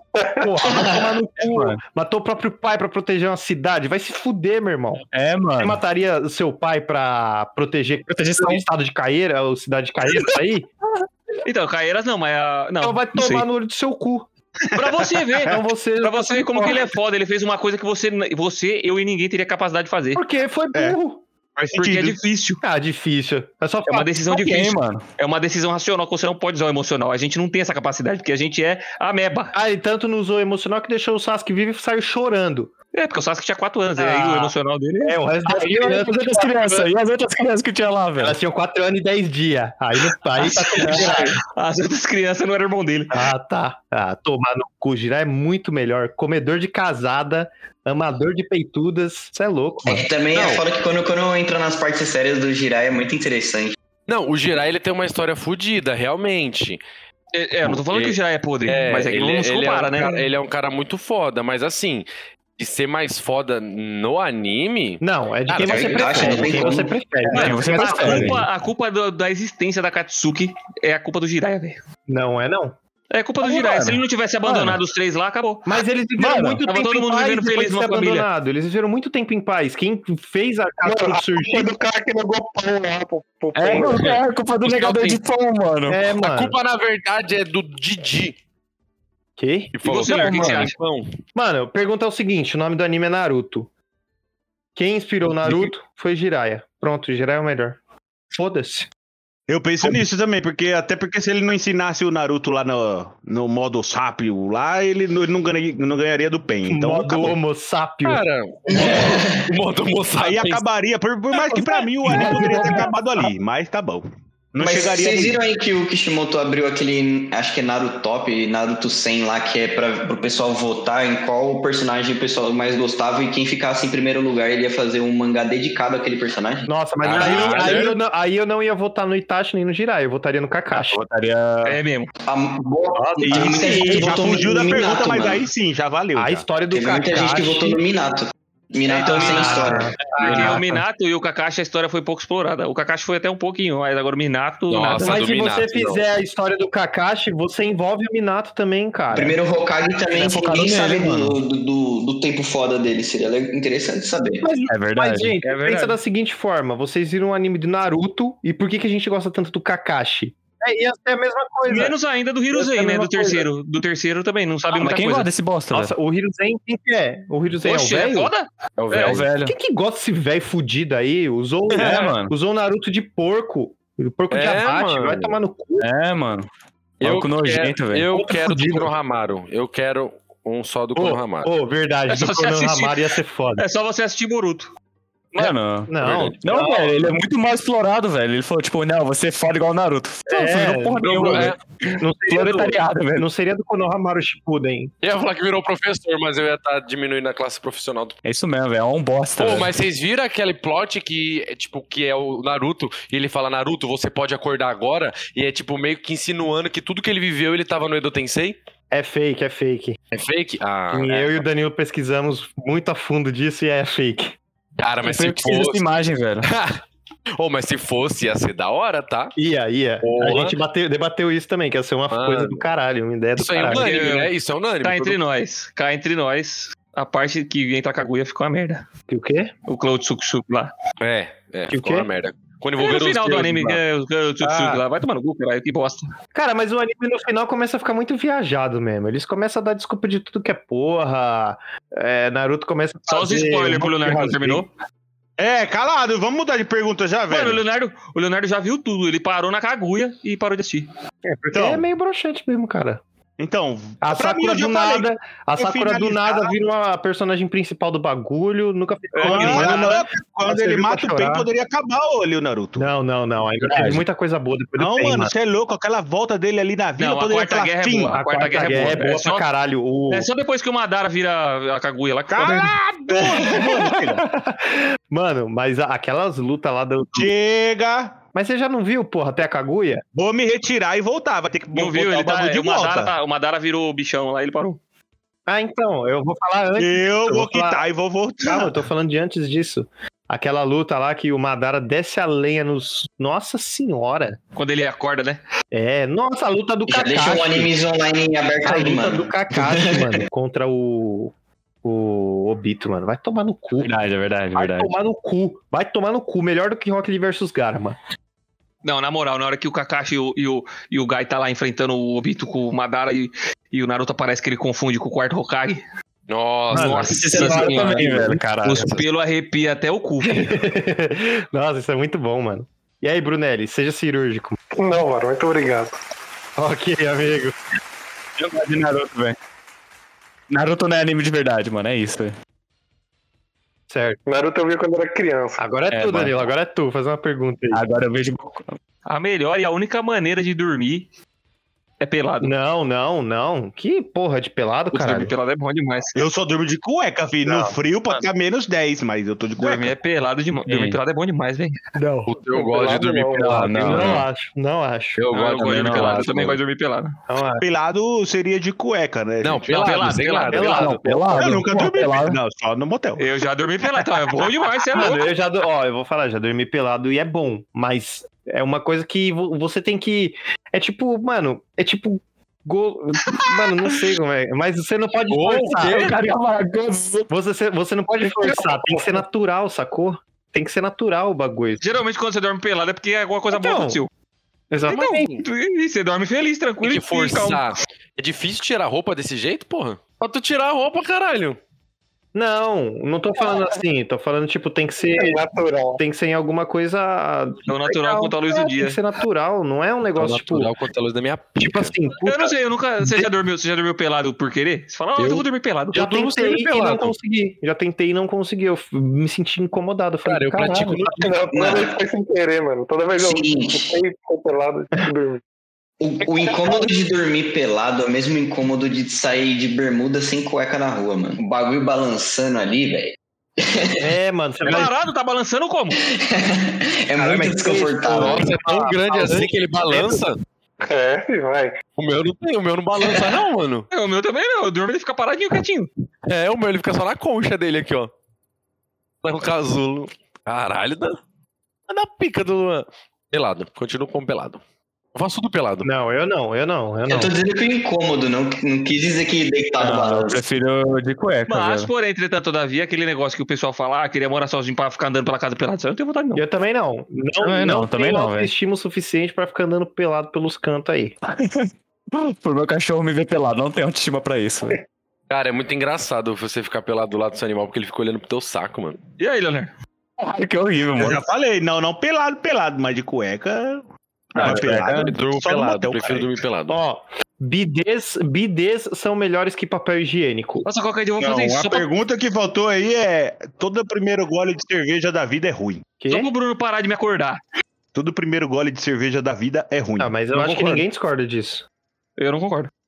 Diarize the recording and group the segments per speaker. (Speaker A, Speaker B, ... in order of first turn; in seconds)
Speaker A: 0.2-0.5, 80.8-84.2, 324.7-325.9, 334.3-335.6, 352.5-353.8, 395.1-396.0, 411.0-415.4, 416.4-416.9, 430.8-431.8
Speaker B: 0.4-5.0, 5.6-10.7, 12.8-14.3, 15.5-16.9, 20.1-21.2, 22.6-24.1, 29.5-32.7, 34.0-34.5, 35.0-36.9, 38.2-41.4, 43.1-50.6, 65.0-68.4, 72.1-72.8, 75.7-81.7, 85.9-86.5, 89.4-90.1, 91.3-93.7, 94.8-97.8, 98.3-98.9, 106.7-108.2, 112.1-112.9, 126.7-131.0, 132.9-134.6, 136.2-137.8, 139.1-140.7, 145.0-149.4, 154.4-161.9, 162.5-163.5, 165.7-168.3, 169.4-175.9, 178.1-178.9, 181.0-183.6, 185.4-187.1, 190.3-194.9, 208.9-210.0, 210.9-214.4, 219.4-223.9, 229.1-229.5, 231.7-232.1, 234.4-234.8, 236.3-244.7, 251.3-253.0, 254.0-261.5, 262.8-265.3, 268.1-270.3, 273.1-277.3, 278.3-280.0, 285.5-287.8, 288.4-294.4, 295.7-297.7, 298.6-301.3, 301.8-303.9, 304.6-308.0, 316.7-318.4, 320.2-324.6, 326.6-327.6, 333.9-334.2, 335.6-337.8, 342.4-345.3, 347.4-347.8, 352.0-352.3, 353.8-355.2, 357.3-357.6, 360.5-361.8, 364.9-376.1, 377.3-381.8, 383.5-384.0, 384.7-385.4, 392.3-395.4, 396.0-400.7, 401.6-403.3, 405.9-411.1, 424.0-424.9, 427.2-430.2, 445.8-447.3, 456.4-461.1, 476.7-480.7, 486.0-486.3, 490.0-491.6
Speaker C: 0.6-1.1, 49.8-53.8, 65.7-67.0, 108.7-109.5, 114.6-126.7, 132.3-135.5, 136.7-139.9, 149.1-154.5, 296.9-300.2, 411.5-412.0, 413.2-413.9, 416.0-424.1, 426.0-428.4, 447.1-450.4
Speaker D: 1.4-1.8, 5.1-5.8, 8.1-8.6, 24.3-25.0, 35.5-38.4, 40.8-41.1, 67.3-68.5, 73.4-74.8, 76.2-76.6, 83.5-86.0, 130.8-131.8, 140.1-140.8, 150.1-151.3, 154.7-155.8, 164.8-165.9, 169.0-169.6, 171.8-172.3, 175.8-176.5, 177.0-178.1, 185.3-191.6, 192.3-193.3, 198.2-199.7, 215.0-216.5, 263.6-264.0, 303.8-304.9, 317.1-318.8, 328.4-329.4, 330.5-332.3, 335.9-336.5, 337.7-338.7, 350.7-351.0, 353.4-354.3, 355.4-356.5, 360.7-362.4, 375.8-377.3, 449.8-451.9, 457.4-458.5, 461.3-464.8, 470.2-471.2, 474.4-475.1
Speaker E: 11.4-13.5, 14.7-20.2, 21.8-22.6, 23.9-29.5, 32.9-35.2, 40.4-43.2, 57.3-60.2, 67.3-71.8, 73.1-75.7, 76.7-78.3, 84.7-85.2, 89.9-90.7, 127.3-127.7, 131.7-132.1, 138.9-145.2, 161.7-165.3, 167.6-169.2, 182.1-183.0, 183.6-184.7, 223.7-228.8, 229.7-230.7, 232.8-236.1, 243.1-244.7, 247.3-250.9, 259.1-260.1, 267.0-269.4, 270.1-272.7, 281.7-284.8, 294.6-295.4, 308.8-315.8, 316.7-320.6, 339.1-341.1, 342.0-342.5, 344.9-346.1, 349.6-351.8, 355.3-357.2, 359.7-361.0, 363.2-365.3, 381.8-384.1, 384.9-387.6, 397.7-399.0, 402.2-406.0, 424.6-426.0, 433.9-435.9, 451.5-456.4, 469.2-469.7, 480.6-481.9, 486.1-487.4, 490.4-490.8, 492.2-492.7
Speaker F: 14.7-15.1, 21.6-22.2, 99.5-107.4, 110.2-115.4, 133.3-136.5, 245.4-247.6, 251.5-251.8, 253.4-256.6, 259.2-262.9, 264.8-268.2, 272.3-274.2, 277.2-278.2, 280.1-283.1, 286.8-288.7, 346.2-349.9, 357.6-359.9, 361.4-363.3, 363.8-365.1, 471.0-476.4, 481.3-485.9, 487.9-490.2
Speaker G: 54.1-56.8, 57.6-66.8, 86.2-88.4, 89.7-91.1, 108.0-110.6, 127.0-127.9, 144.7-146.0, 168.8-169.3, 174.3-175.4, 177.0-181.5, 186.0-186.3, 191.0-191.6, 195.0-198.2, 199.4-208.6, 210.1-211.4, 214.8-215.8, 216.4-216.8, 217.4-219.3, 220.0-220.6, 222.1-222.6, 223.4-225.2, 231.0-233.8, 316.3-317.5, 318.7-319.1, 352.3-354.2, 355.2-356.6, 359.4-360.7, 375.3-376.1, 386.8-391.6, 400.2-401.9, 405.2-407.1, 410.2-411.3, 428.1-430.4, 432.0-433.9, 436.3-438.1, 439.2-441.2, 441.9-444.6, 445.1-445.9, 465.3-469.0, 474.4-476.8